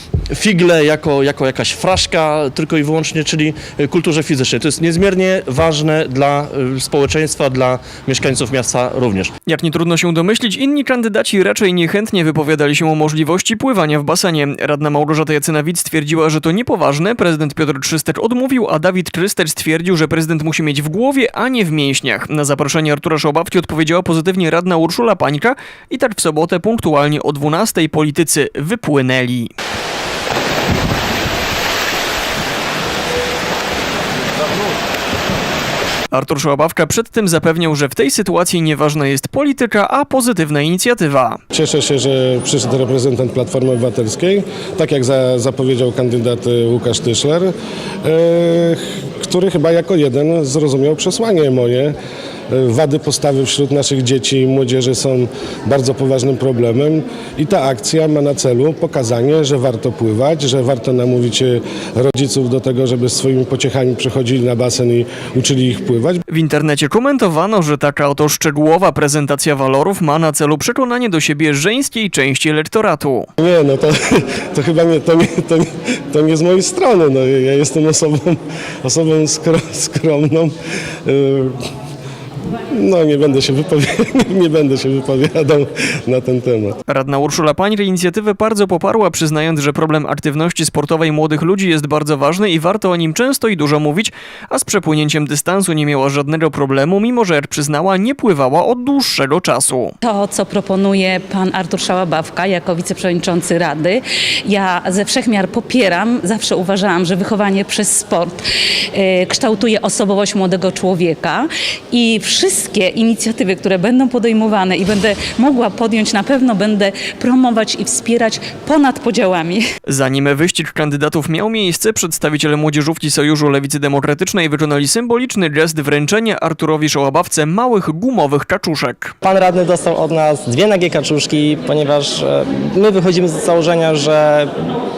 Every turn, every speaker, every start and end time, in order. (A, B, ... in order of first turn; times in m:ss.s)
0:00.3-0:09.3 A
0:09.5-0:29.5 B
0:36.1-0:41.4 B
0:41.5-0:47.5 C
0:48.0-0:52.0 C
0:52.5-1:06.2 C
1:06.3-1:13.3 B
1:13.4-1:20.6 C
1:21.1-1:21.6 C
1:22.8-1:26.8 C
1:26.9-1:39.9 B
1:40.0-1:48.4 D
1:48.9-1:59.6 D
1:59.9-2:09.2 B
2:09.2-2:14.5 E